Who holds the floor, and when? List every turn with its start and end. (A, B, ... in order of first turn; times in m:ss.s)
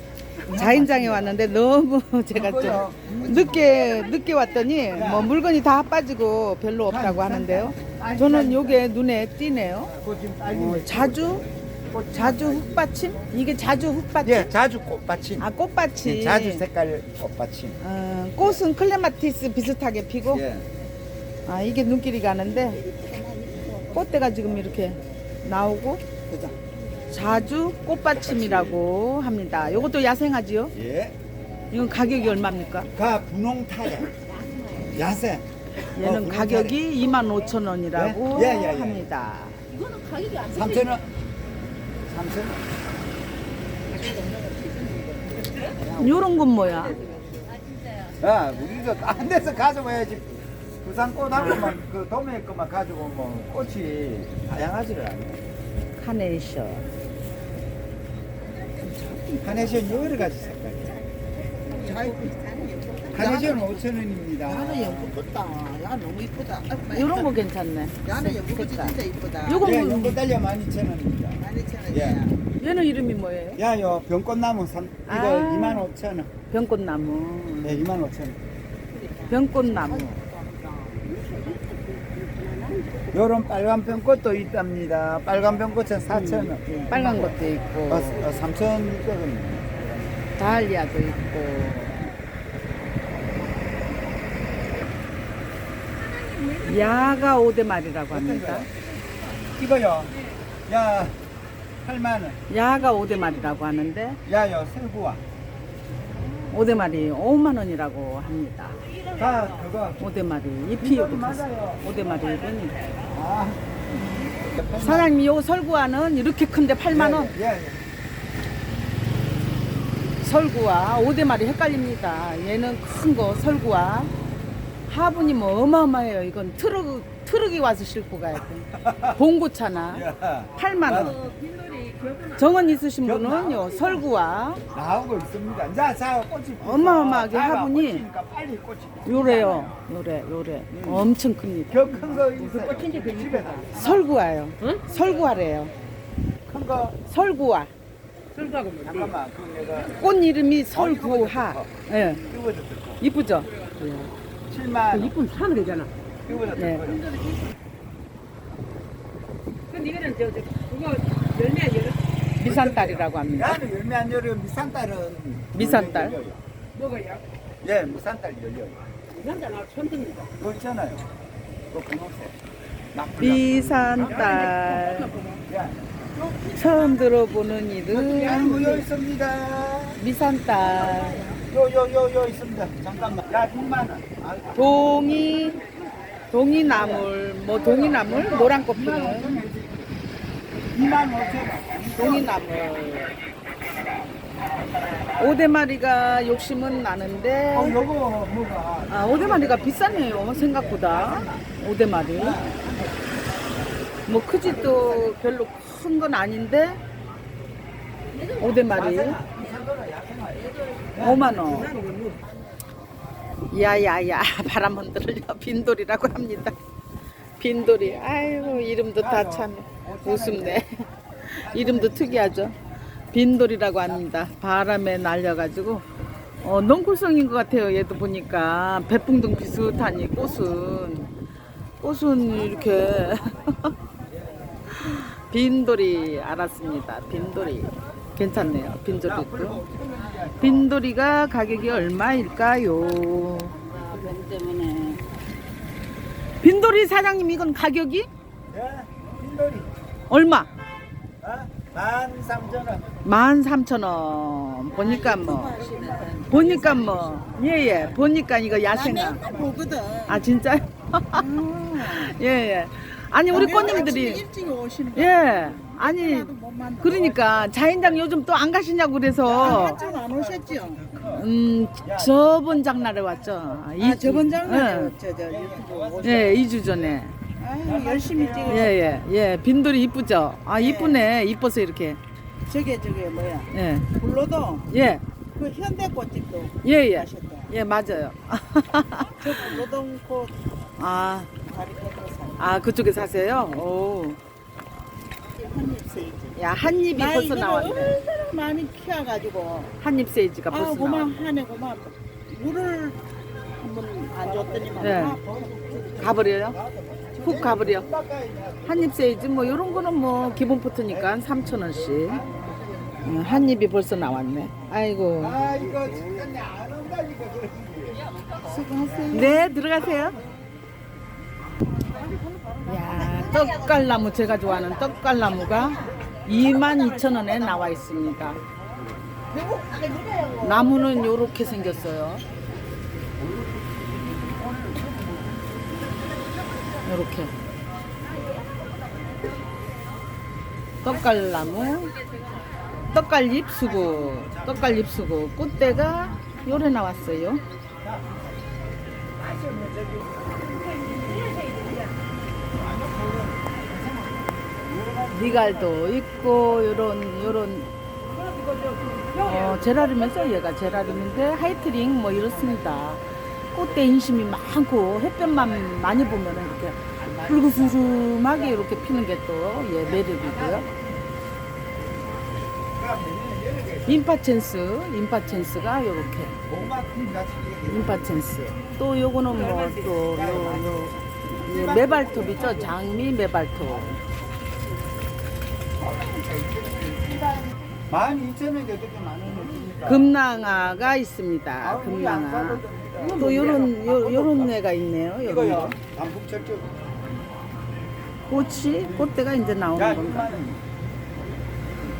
0:00.4-0:01.4 A
0:00.5-0:09.9 B
0:02.3-0:03.7 A
0:03.1-0:03.8 C
0:04.9-0:05.3 A
0:06.9-0:08.8 A
0:09.8-0:12.9 A
0:10.5-0:11.4 B
0:12.1-0:14.5 B
0:14.2-0:15.5 A
0:15.4-0:16.6 B
0:16.0-0:17.8 A
0:17.8-0:20.4 B
0:20.3-0:20.7 A
0:21.5-0:22.8 B
0:22.8-0:24.9 C
0:23.9-0:26.0 B
0:26.3-0:26.6 C
0:27.1-0:30.7 B
0:28.1-0:28.8 A
0:30.7-0:31.1 A
0:31.7-0:32.9 B
0:32.9-0:34.1 A
0:34.4-0:34.9 C
0:34.8-0:36.8 A
0:35.9-0:39.6 B
0:37.9-0:39.1 A
0:39.7-0:40.9 C
0:40.5-0:41.1 A
0:42.1-0:42.6 A
0:43.9-0:47.4 C
0:46.0-0:47.0 B
0:48.2-0:50.3 A
0:50.8-0:55.4 A
0:56.0-0:56.9 B
0:58.6-1:03.8 C
0:59.4-1:01.0 A
1:03.1-1:05.2 A
1:04.4-1:07.3 C
1:06.9-1:10.2 B
1:08.0-1:09.7 C
1:09.6-1:12.2 A
1:11.4-1:12.4 C
1:12.6-1:13.6 B
1:13.6-1:16.3 A
1:15.0-1:15.9 B
1:16.5-1:17.9 B
1:17.6-1:18.4 A
1:18.9-1:23.2 C
1:19.3-1:20.2 B
1:23.1-1:29.7 A
1:24.0-1:24.4 C
1:26.1-1:27.5 C
1:26.9-1:28.3 B
1:30.4-1:32.0 B
1:36.1-1:36.6 C
1:36.6-1:38.7 B
1:38.1-1:38.7 A
1:39.6-1:40.1 A
1:40.7-1:41.2 A
1:41.8-1:42.4 A
1:42.5-1:44.2 B
1:44.2-1:45.2 A
1:46.5-1:48.8 B
1:49.1-1:50.0 A
1:50.0-1:52.8 B
1:50.8-1:51.9 A
1:53.1-1:53.7 A
1:54.2-1:55.1 A
1:54.8-1:57.4 B
1:56.9-1:57.8 A
2:00.2-2:04.1 B
2:04.9-2:10.0 B
2:08.7-2:09.2 A
2:09.9-2:11.2 A
2:10.6-2:11.2 B
2:11.2-2:12.4 C
2:12.4-2:14.6 B
2:13.0-2:14.0 A
2:14.7-2:19.8 A
2:16.6-2:18.0 B
2:19.0-2:22.2 B
2:20.7-2:21.1 A
2:21.7-2:24.1 A
2:22.3-2:23.7 C
2:23.7-2:25.7 B
2:26.4-2:27.0 A
2:27.1-2:27.7 B
2:28.3-2:29.1 C
2:28.8-2:30.1 A
2:30.0-2:32.2 B
2:30.7-2:33.0 A
2:33.0-2:33.5 B
2:33.8-2:34.1 C
2:34.5-2:35.2 A
2:34.9-2:35.9 C
2:36.2-2:37.1 A
2:36.5-2:36.9 B
2:37.2-2:37.5 C
2:39.7-2:42.0 C
2:42.4-2:46.4 A
2:42.4-2:43.6 B
2:45.5-2:46.2 B
2:46.8-2:47.2 C
2:47.6-2:48.8 A
2:49.2-2:50.3 C
2:50.4-2:51.0 A
2:51.7-2:52.4 A
2:52.9-2:54.8 A
2:53.2-2:55.1 B
2:54.3-2:55.4 C
2:55.5-2:55.9 A
2:56.1-2:57.3 C
2:56.5-2:58.6 B
2:57.9-3:00.0 A
2:58.0-2:58.8 C
3:00.0-3:01.2 B
3:00.8-3:01.4 C
3:01.4-3:04.7 A
3:04.5-3:05.6 B
3:05.5-3:06.0 C
3:06.3-3:09.4 B
3:06.6-3:09.9 A
3:10.7-3:12.4 A
3:11.9-3:13.2 B
3:15.2-3:17.8 B
3:17.5-3:21.4 A
3:18.9-3:22.4 B
3:22.1-3:22.8 A
3:24.1-3:26.8 B
3:24.4-3:25.2 A
3:28.3-3:29.2 B
3:28.6-3:31.6 A
3:31.0-3:31.7 B
3:31.4-3:32.2 C
3:33.5-3:36.6 B
3:37.4-3:42.6 B
3:39.0-3:40.6 A
3:41.4-3:42.4 A
3:43.1-3:45.8 B
3:46.4-3:51.1 B
3:51.8-3:53.7 B
3:54.7-3:59.6 B
3:59.0-4:00.7 A
4:00.4-4:03.6 B
4:03.6-4:05.1 C
4:06.4-4:08.1 B
4:08.5-4:09.7 A
4:10.1-4:10.5 B
4:11.2-4:12.9 A
4:13.0-4:15.6 B
4:14.8-4:17.4 C
4:16.3-4:19.2 B
4:18.7-4:20.2 C
4:20.1-4:21.3 B
4:21.1-4:22.2 C
4:21.8-4:24.2 B
4:23.3-4:24.1 A
4:23.3-4:27.3 C
4:24.9-4:29.8 B
4:29.2-4:31.3 A
4:29.3-4:30.9 C
4:31.0-4:34.9 B
4:31.8-4:32.1 A
4:33.8-4:36.4 C
4:35.3-4:37.0 A
4:36.0-4:37.1 B
4:37.4-4:38.9 C
4:37.6-4:38.9 A
4:38.4-4:42.0 B
4:40.5-4:41.0 C
4:42.5-4:44.7 C
4:43.5-4:43.9 B
4:44.7-4:45.0 B
4:45.3-4:47.5 C
4:46.6-4:49.6 B
4:49.1-4:50.3 C
4:50.8-4:51.3 B
4:51.4-4:52.5 C
4:52.4-4:54.2 B
4:55.3-4:56.4 C
4:56.4-4:58.0 B
4:56.9-4:59.7 C
4:59.8-5:01.1 B
5:00.5-5:03.0 C
5:03.6-5:06.1 C
5:04.2-5:09.6 A
5:04.8-5:05.2 B
5:06.0-5:06.6 B
5:07.2-5:07.9 B
5:08.6-5:12.2 B
5:10.9-5:11.2 A
5:11.7-5:13.5 A
5:13.0-5:15.4 B
5:15.2-5:18.2 A
5:15.6-5:16.1 C
5:18.2-5:19.4 C
5:18.8-5:19.4 A
5:19.1-5:20.2 B
5:19.9-5:20.2 A
5:21.9-5:24.9 C
5:22.6-5:28.4 B
5:25.6-5:25.9 C
5:29.3-5:31.4 C
5:30.4-5:32.2 B
5:33.2-5:35.3 A
5:36.8-5:37.3 B
5:40.8-5:42.0 B
5:42.9-5:47.4 B
5:43.6-5:44.9 A
5:47.8-5:48.3 A
5:49.2-5:50.8 A
5:52.5-5:55.8 A
5:55.1-5:57.7 B
5:59.2-6:10.7 B
6:07.0-6:08.2 A
6:09.8-6:10.8 A
6:12.7-6:14.0 A
6:13.9-6:16.4 B
6:16.4-6:18.3 A
6:17.7-6:24.0 B
6:19.9-6:22.9 A
6:25.8-6:30.1 A
6:29.8-6:35.8 B
6:31.6-6:34.5 A
6:35.2-6:36.8 A
6:38.3-6:40.4 B
6:39.7-6:40.6 A